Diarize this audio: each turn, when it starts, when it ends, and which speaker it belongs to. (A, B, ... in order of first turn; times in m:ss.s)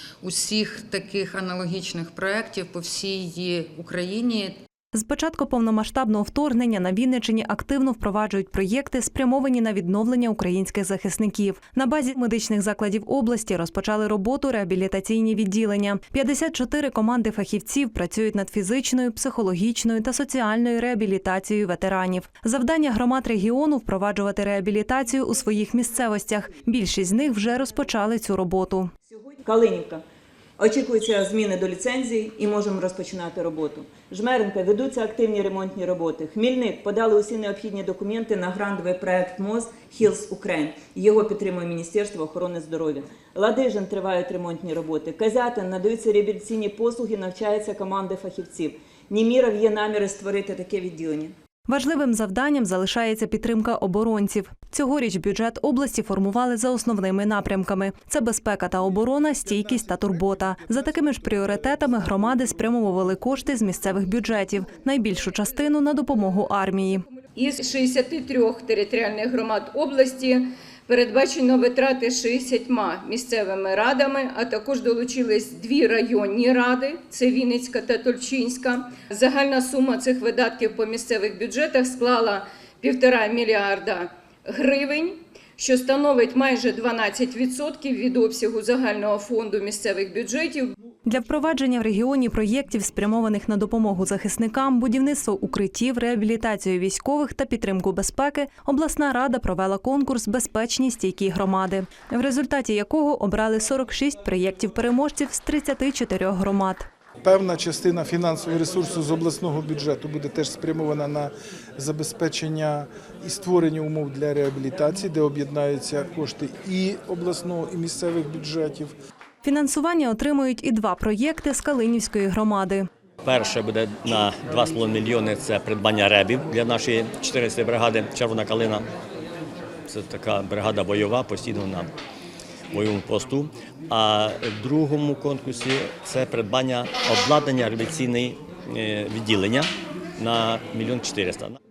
0:00.2-0:04.6 A
0:04.9-0:28.9 B
0:29.2-0:30.0 C
0:30.6-0:51.3 C
0:51.7-1:07.0 B
1:07.3-1:30.7 D
1:31.0-1:46.8 B
1:47.2-1:58.9 E
1:59.4-2:02.8 B
2:03.2-2:08.8 F
2:09.9-2:11.9 F
2:12.7-2:21.6 F